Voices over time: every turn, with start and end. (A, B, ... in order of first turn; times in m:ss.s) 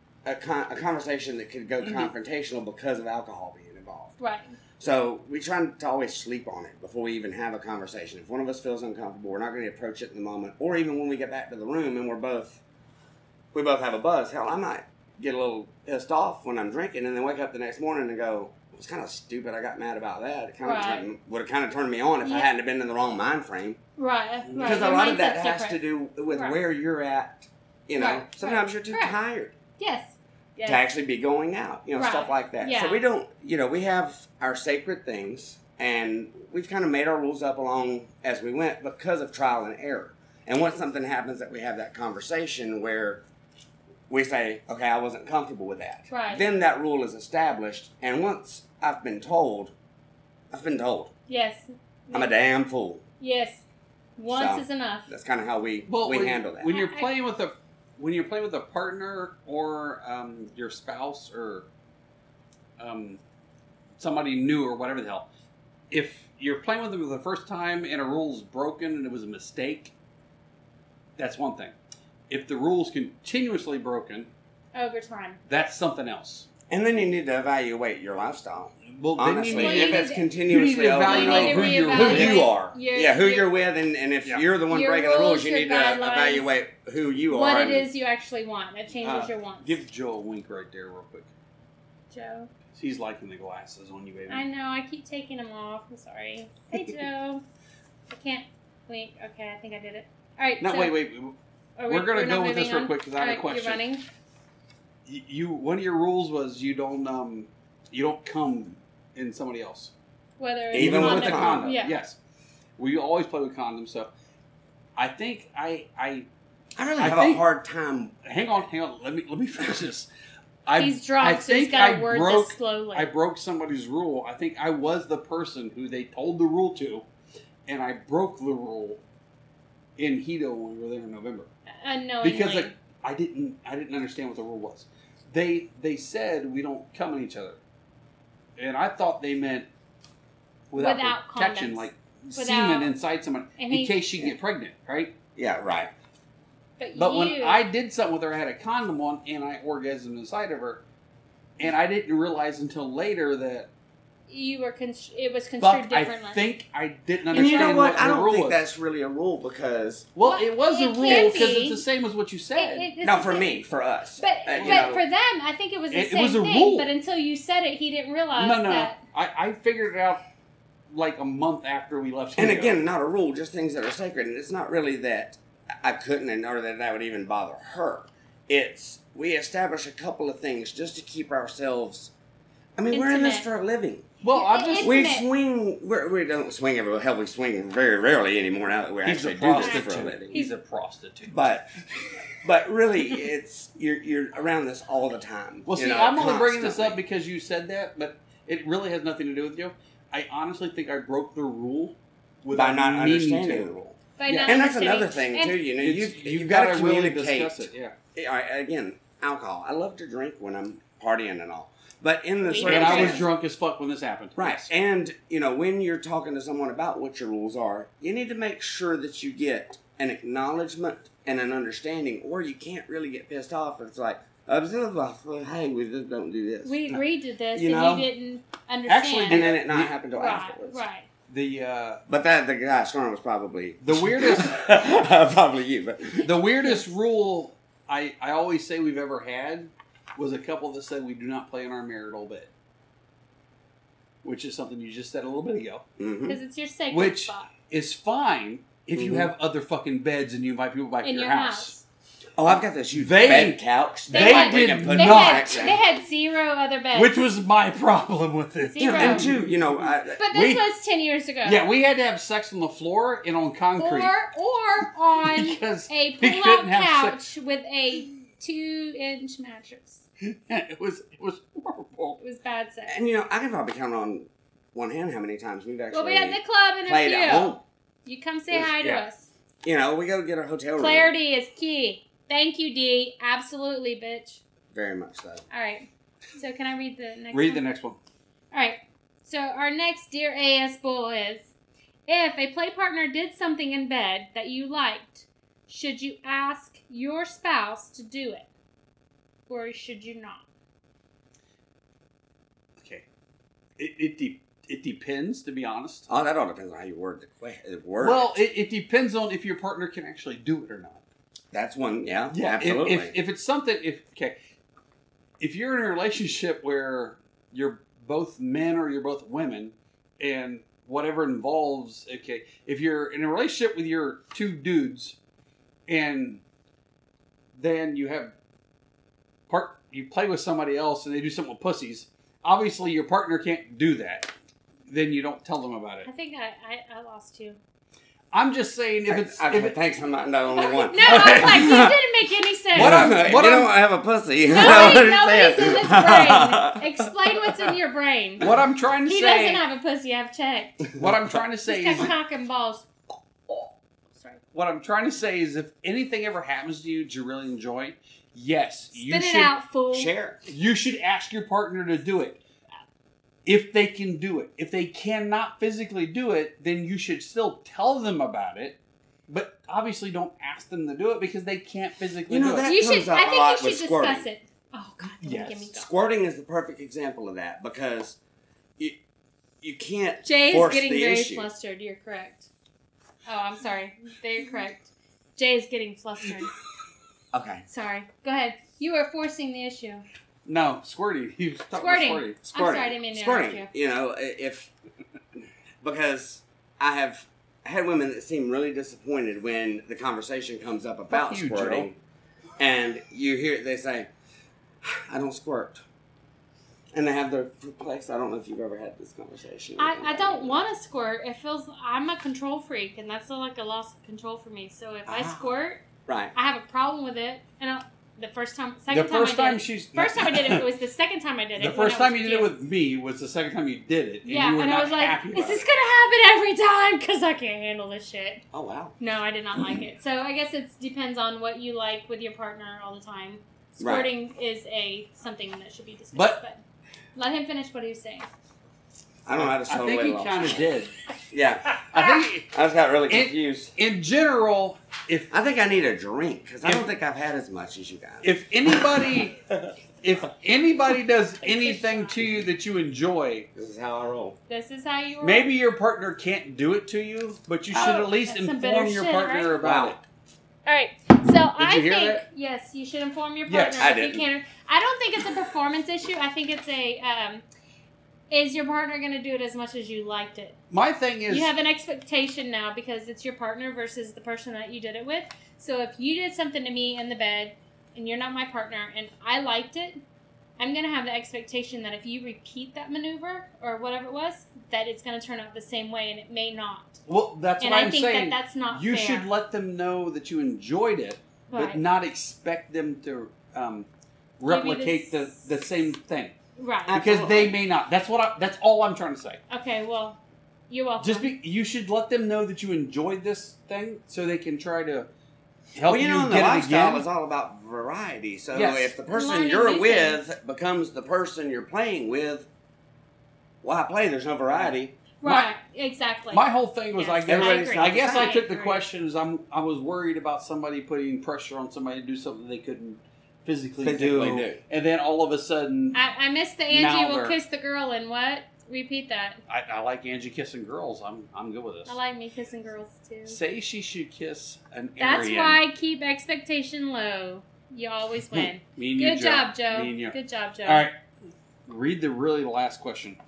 0:00.2-0:04.1 A
0:04.2-0:04.5 B
0:04.8-0:12.6 A
0:13.5-0:23.8 A
0:20.6-0:21.1 B
0:22.2-0:22.5 B
0:24.0-0:26.6 B
0:24.5-0:24.8 C
0:24.5-0:29.5 A
0:28.0-0:29.2 B
0:29.8-0:30.8 B
0:30.6-0:43.2 A
0:32.0-0:33.0 B
0:44.1-0:49.7 A
0:46.1-0:46.4 B
0:50.5-0:51.1 A
0:51.3-0:52.4 B
0:52.1-0:53.0 A
0:53.2-0:53.6 B
0:54.2-0:55.1 B
0:54.3-0:56.7 A
0:55.9-1:01.7 C
0:56.7-0:57.1 B
1:02.8-1:03.2 C
1:04.0-1:05.3 C
1:05.9-1:09.9 C
1:11.2-1:11.7 C
1:12.3-1:14.3 C
1:14.7-1:15.4 B
1:15.5-1:16.5 C
1:16.7-1:27.9 A
1:18.9-1:22.5 C
1:19.5-1:20.3 B
1:21.0-1:23.5 B
1:24.7-1:26.5 B
1:27.3-1:29.8 B
1:29.0-1:31.3 C
1:32.1-1:32.5 B
1:32.7-1:34.4 C
1:34.3-1:37.4 B
1:38.1-1:41.0 B
1:40.6-1:41.3 C
1:41.8-1:44.0 B
1:41.9-1:43.8 C
1:45.0-1:49.9 C
1:50.4-1:52.0 B
1:50.7-1:51.7 A
1:50.7-1:52.2 C
1:52.8-1:54.1 C
1:55.0-1:56.3 C
1:56.8-1:58.3 A
1:57.0-1:57.4 C
1:58.2-2:00.1 C
2:00.6-2:07.0 C
2:00.8-2:03.1 B
2:07.7-2:09.0 C
2:10.0-2:11.5 C
2:11.7-2:12.7 B
2:12.2-2:17.6 C
2:18.6-2:19.7 C
2:20.7-2:25.1 C
2:20.8-2:22.9 B
2:23.6-2:24.3 B
2:25.4-2:25.9 A
2:26.8-2:27.6 B
2:27.0-2:30.8 C
2:31.6-2:33.7 C
2:34.3-2:36.4 B
2:35.6-2:38.6 C
2:37.3-2:40.1 A
2:37.3-2:37.9 B
2:40.1-2:42.9 C
2:40.2-2:41.8 B
2:41.0-2:41.4 A
2:42.5-2:43.6 B
2:43.0-2:45.0 A
2:44.2-2:49.0 B
2:44.6-2:45.0 C
2:45.9-2:46.9 C
2:48.3-2:50.2 C
2:50.9-2:52.8 C
2:52.4-3:02.1 A
3:02.8-3:04.1 A
3:02.9-3:03.5 B
3:04.2-3:05.0 C
3:04.3-3:05.3 B
3:04.8-3:10.3 A
3:09.0-3:11.5 C
3:09.6-3:10.5 B
3:11.3-3:11.7 A
3:12.4-3:17.0 A
3:15.7-3:24.6 C
3:22.5-3:23.8 A
3:24.2-3:25.6 B
3:24.4-3:33.3 A
3:25.8-3:28.0 C
3:32.4-3:33.3 B
3:32.6-3:34.7 C
3:34.4-3:47.0 A
3:46.6-3:49.5 B
3:47.5-3:48.1 A
3:48.9-3:50.0 C
3:49.3-3:50.8 A
3:50.1-3:51.1 B
3:51.3-3:52.0 C
3:52.1-3:56.3 A
3:53.8-3:54.6 C
3:56.2-4:02.5 C
3:56.6-3:56.9 B
4:04.2-4:05.8 C
4:06.0-4:06.4 A
4:06.3-4:07.5 B
4:06.9-4:11.8 C
4:08.9-4:09.3 A
4:11.0-4:11.8 B
4:12.4-4:15.8 A
4:12.9-4:15.7 C
4:14.1-4:17.2 B
4:16.9-4:19.9 C
4:18.6-4:19.3 B
4:18.8-4:20.6 A
4:20.2-4:21.6 B
4:21.4-4:24.1 C
4:23.8-4:30.0 B
4:25.2-4:27.2 C
4:30.2-4:32.2 C
4:32.2-4:33.0 B
4:32.9-4:37.6 A
4:35.9-4:39.3 B
4:38.5-4:39.0 C
4:39.6-4:41.1 A
4:40.8-4:44.4 B
4:44.7-4:45.4 A
4:45.5-4:47.6 B
4:47.3-4:48.0 C
4:48.5-4:51.5 B
4:52.1-4:58.5 B
4:59.5-5:00.4 B
5:02.8-5:03.0 C
5:03.8-5:06.1 C
5:06.1-5:08.4 A
5:08.0-5:11.0 C
5:11.5-5:13.1 A
5:12.3-5:14.3 C
5:15.4-5:25.2 C
5:25.9-5:26.4 C
5:27.6-5:28.3 C
5:29.5-5:34.3 C
5:34.9-5:36.1 C
5:36.0-5:37.6 B
5:38.3-5:39.8 C
5:39.1-5:41.9 A
5:40.5-5:43.2 B
5:41.0-5:41.8 C
5:42.7-5:43.7 C
5:42.7-5:47.1 A
5:44.5-5:48.5 B
5:48.4-5:49.6 C
5:49.0-5:50.8 B
5:50.9-5:52.1 C
5:51.6-5:52.8 B
5:54.5-5:59.5 C
5:58.9-6:00.1 B
5:59.9-6:00.4 A
6:00.5-6:02.4 C
6:03.4-6:08.8 C
6:09.3-6:12.7 C
6:12.3-6:14.2 A
6:12.6-6:15.9 B
6:15.2-6:15.7 C
6:15.7-6:18.2 A
6:19.6-6:21.5 A
6:20.2-6:22.5 B
6:23.2-6:26.5 B
6:27.3-6:27.6 A
6:27.7-6:30.0 B
6:30.4-6:32.4 C
6:31.7-6:33.7 B
6:32.4-6:34.7 A
6:35.8-6:42.0 A
6:41.1-6:41.9 C
6:42.6-6:44.1 A
6:44.8-6:45.8 A
6:46.9-6:50.6 A
6:49.8-6:55.8 B
6:55.0-6:55.5 A
6:56.0-6:56.3 A
6:56.3-7:02.6 B
6:58.9-7:00.6 C
7:01.6-7:05.6 C
7:04.2-7:08.4 B
7:08.5-7:08.9 A
7:09.0-7:16.6 B
7:13.8-7:14.1 A
7:16.1-7:16.4 C
7:17.1-7:18.3 B
7:19.2-7:20.7 A
7:19.4-7:20.9 C
7:21.3-7:21.8 A
7:21.8-7:22.5 C
7:21.9-7:22.3 B
7:22.5-7:23.7 A
7:23.1-7:25.3 C
7:25.3-7:28.3 A
7:28.2-7:29.4 C
7:30.0-7:33.5 C
7:31.4-7:32.1 B
7:33.5-7:34.4 A
7:34.5-7:35.5 B
7:35.2-7:40.0 C
7:37.7-7:39.5 B
7:39.6-7:40.0 A
7:40.6-7:47.4 B
7:41.6-7:42.2 C
7:43.5-7:44.0 C
7:43.8-7:44.2 A
7:48.3-7:50.6 B
7:50.7-7:51.5 C
7:51.3-8:00.0 B
8:00.6-8:07.0 B
8:07.1-8:13.9 C
8:07.6-8:09.3 B
8:11.5-8:11.8 B
8:14.4-8:16.3 C
8:14.5-8:15.4 B
8:16.6-8:17.0 B
8:16.9-8:17.6 A
8:16.9-8:19.4 C
8:19.5-8:21.3 B
8:21.0-8:25.1 C
8:25.7-8:27.0 C
8:25.8-8:32.5 A
8:28.5-8:28.9 C
8:29.1-8:30.2 B
8:33.6-8:35.0 A
8:35.2-8:38.8 B
8:35.2-8:35.5 C
8:36.3-8:46.0 C
8:37.2-8:38.4 A
8:43.8-8:44.6 A
8:45.9-8:49.4 B
8:46.7-8:47.4 C
8:49.5-8:51.9 C
8:51.8-8:53.4 B
8:53.3-8:55.6 C
8:55.0-9:00.9 B
8:58.3-9:00.9 C
9:01.7-9:03.2 C